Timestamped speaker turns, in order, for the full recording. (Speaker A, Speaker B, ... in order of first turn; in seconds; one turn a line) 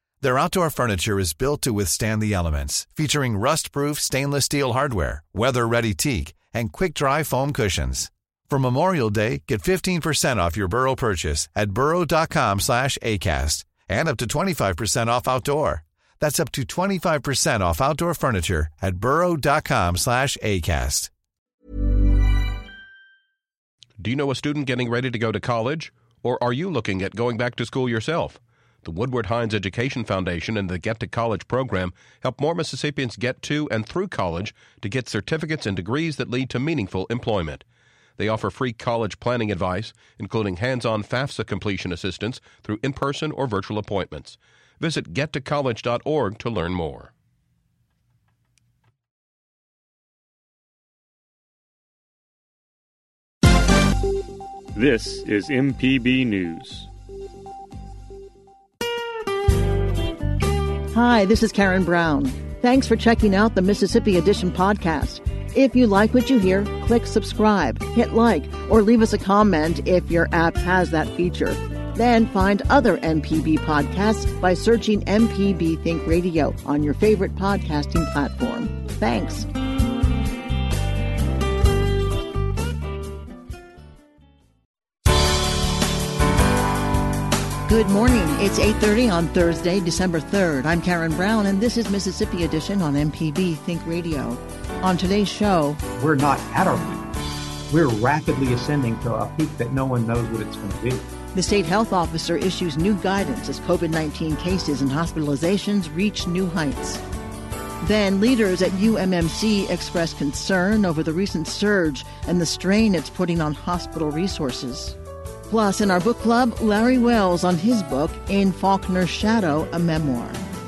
Speaker A: 0.2-21.1
Speaker B: 24.0-37.6
Speaker B: 38.2-47.1
Speaker C: 54.7-56.9
Speaker D: 60.9-79.5
Speaker D: 87.7-95.8
Speaker E: 96.0-97.1
Speaker E: 97.7-101.0
Speaker D: 101.3-107.0
Speaker D: 107.8-115.0
Speaker D: 115.5-120.4